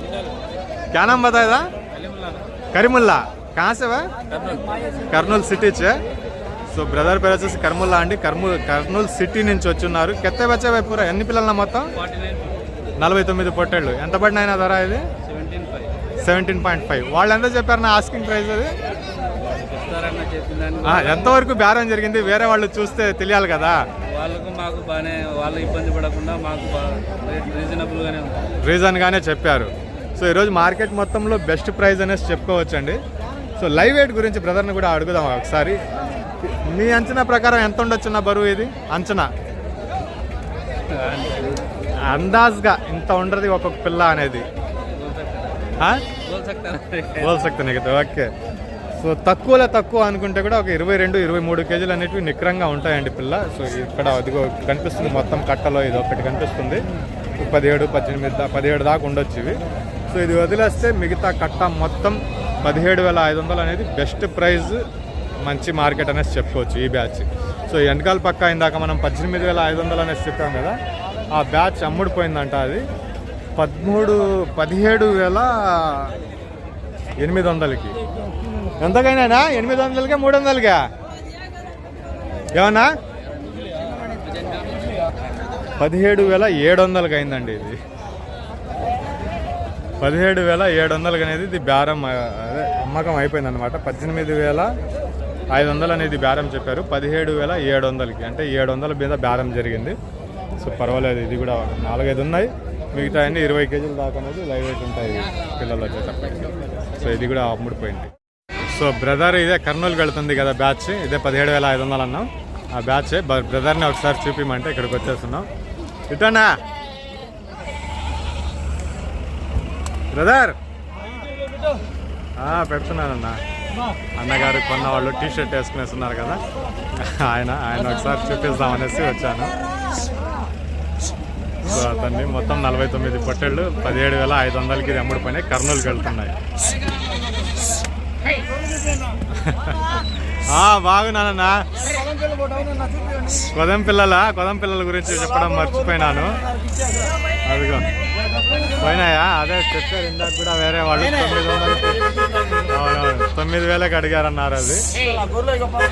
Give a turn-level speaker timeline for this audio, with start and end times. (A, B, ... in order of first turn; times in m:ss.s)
0:00.9-0:01.7 A
0:01.9-0:02.5 B
0:02.7-0:04.1 A
0:04.3-0:04.7 B
0:05.1-0:06.0 A
0:06.7-0:11.9 A
0:12.0-0:12.6 B
0:13.0-0:15.0 A
0:15.2-0:15.9 B
0:16.2-0:18.7 A
0:19.4-0:21.4 B
0:20.8-0:23.8 A
0:24.1-0:28.5 B
0:28.6-0:33.0 A
0:33.6-0:35.8 A
0:36.4-0:39.3 A
0:40.8-0:41.7 B
0:42.0-0:44.4 A
0:44.9-0:47.5 B
0:45.8-0:46.0 A
0:47.2-0:48.3 A
0:49.0-0:56.8 A
0:57.4-1:04.8 A
1:05.4-1:10.8 A
1:11.3-1:12.8 A
1:13.6-1:16.2 A
1:17.2-1:18.0 A
1:18.8-1:20.9 A
1:22.5-1:22.9 A
1:23.2-1:25.0 B
1:25.8-1:27.8 A
1:30.0-1:34.7 A
1:35.5-1:40.0 A
1:40.6-1:55.5 A
1:56.1-1:56.6 A
2:00.1-2:00.6 A
2:02.4-2:03.4 A
2:04.2-2:06.4 A
2:06.9-2:09.5 A
2:11.6-2:16.4 A
2:19.3-2:21.7 A
2:23.4-2:26.4 A
2:27.4-2:27.9 A
2:28.8-2:32.0 A
2:32.7-2:34.8 A